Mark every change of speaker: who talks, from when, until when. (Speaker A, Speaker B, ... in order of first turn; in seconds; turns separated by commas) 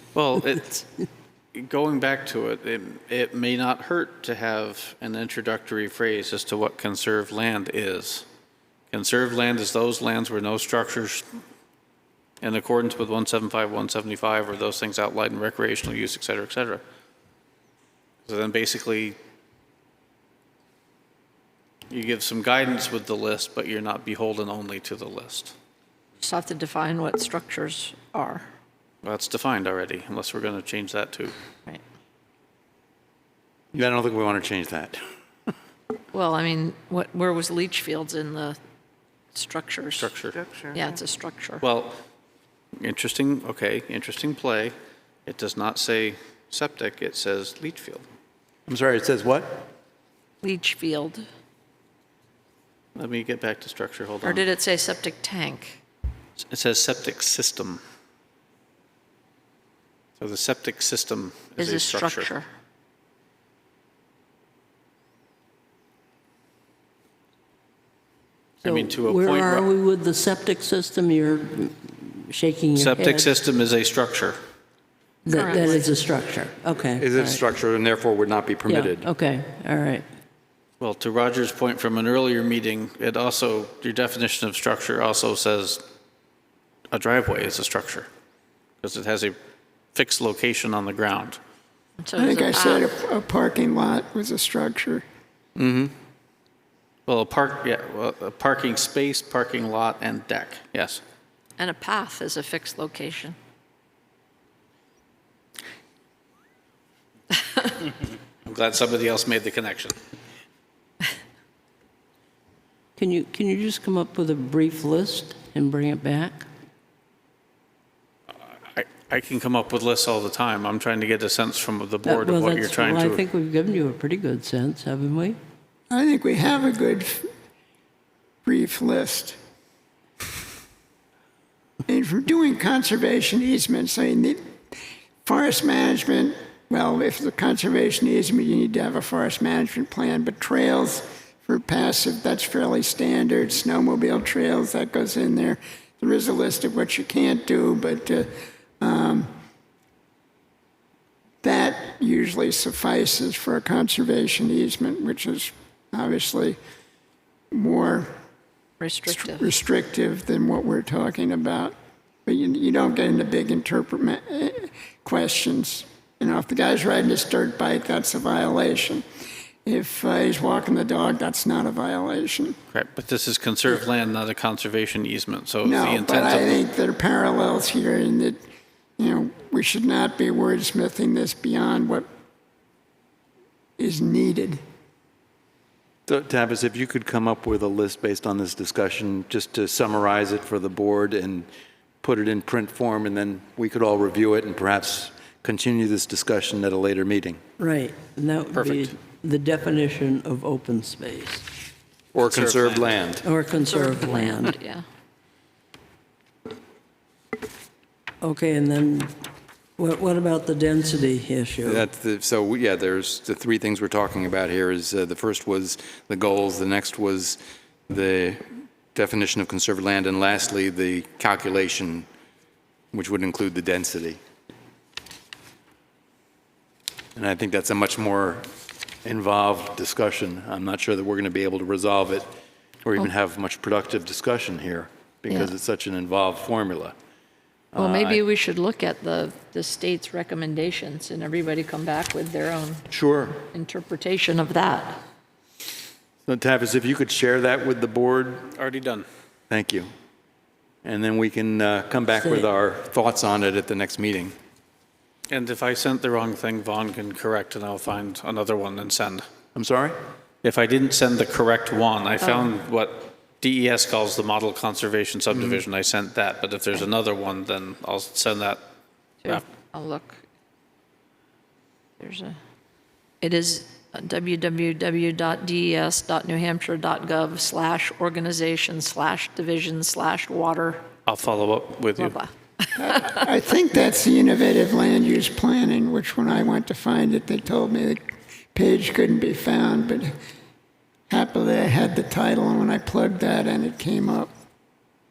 Speaker A: 0.1-0.8, Speaker A: 1.5-8.2, Speaker A: 8.9-11.2, Speaker A: 12.4-16.8, Speaker A: 18.2-19.2, Speaker A: 21.9-25.5, Speaker B: 26.2-28.4, Speaker A: 29.0-31.3, Speaker C: 33.7-35.0, Speaker B: 36.1-38.6, Speaker B: 39.3-40.1, Speaker A: 40.0-40.4, Speaker B: 40.7-41.6, Speaker A: 41.6-42.0, Speaker A: 42.8-44.7, Speaker A: 45.2-48.0, Speaker C: 48.6-49.7, Speaker B: 50.4-51.2, Speaker A: 53.0-54.4, Speaker B: 54.2-55.8, Speaker A: 56.4-57.8, Speaker A: 60.2-62.3, Speaker B: 61.6-62.5, Speaker A: 68.6-69.7, Speaker D: 68.6-73.3, Speaker A: 72.7-74.4, Speaker D: 75.2-77.4, Speaker B: 75.3-75.9, Speaker C: 77.0-79.1, Speaker D: 78.7-80.0, Speaker A: 80.8-85.8, Speaker A: 86.9-88.1, Speaker A: 88.8-89.3, Speaker A: 89.9-91.4, Speaker B: 92.0-92.9, Speaker E: 92.2-95.0, Speaker C: 95.5-95.9, Speaker A: 97.0-101.0, Speaker B: 101.6-103.4, Speaker A: 108.4-110.0, Speaker D: 113.0-116.5, Speaker A: 118.6-123.2, Speaker D: 122.0-125.4, Speaker E: 125.9-127.3, Speaker E: 128.4-129.4, Speaker E: 131.9-134.4, Speaker E: 135.2-148.3, Speaker E: 148.8-149.3, Speaker E: 151.4-156.6, Speaker E: 157.5-158.1, Speaker B: 158.8-159.5, Speaker E: 159.1-161.7, Speaker E: 162.2-169.0, Speaker E: 169.6-172.6, Speaker A: 172.7-176.6, Speaker E: 175.6-178.4, Speaker E: 179.0-182.1, Speaker E: 183.8-184.6, Speaker C: 186.1-191.5, Speaker C: 192.0-197.4, Speaker D: 197.6-201.4, Speaker A: 198.5-198.9, Speaker C: 202.1-203.2, Speaker A: 202.2-203.0, Speaker D: 203.2-204.6, Speaker B: 203.7-204.8, Speaker D: 208.2-209.1, Speaker D: 209.8-211.8, Speaker C: 211.6-222.1, Speaker C: 222.9-224.2, Speaker C: 227.1-228.4, Speaker C: 229.0-232.3, Speaker C: 232.8-236.9, Speaker C: 237.7-238.2, Speaker B: 237.8-242.8, Speaker C: 242.9-243.4, Speaker B: 243.4-245.0, Speaker C: 246.2-248.5, Speaker A: 248.5-249.1, Speaker C: 249.5-249.9, Speaker C: 250.8-254.3, Speaker D: 252.2-252.5, Speaker A: 255.3-259.2, Speaker C: 259.5-260.0, Speaker A: 260.4-268.6, Speaker B: 262.2-262.5, Speaker B: 269.2-270.2, Speaker B: 272.0-272.4, Speaker B: 273.2-280.8, Speaker A: 281.1-282.2, Speaker B: 282.0-283.3, Speaker E: 282.7-288.0, Speaker E: 288.5-290.1, Speaker E: 291.1-294.3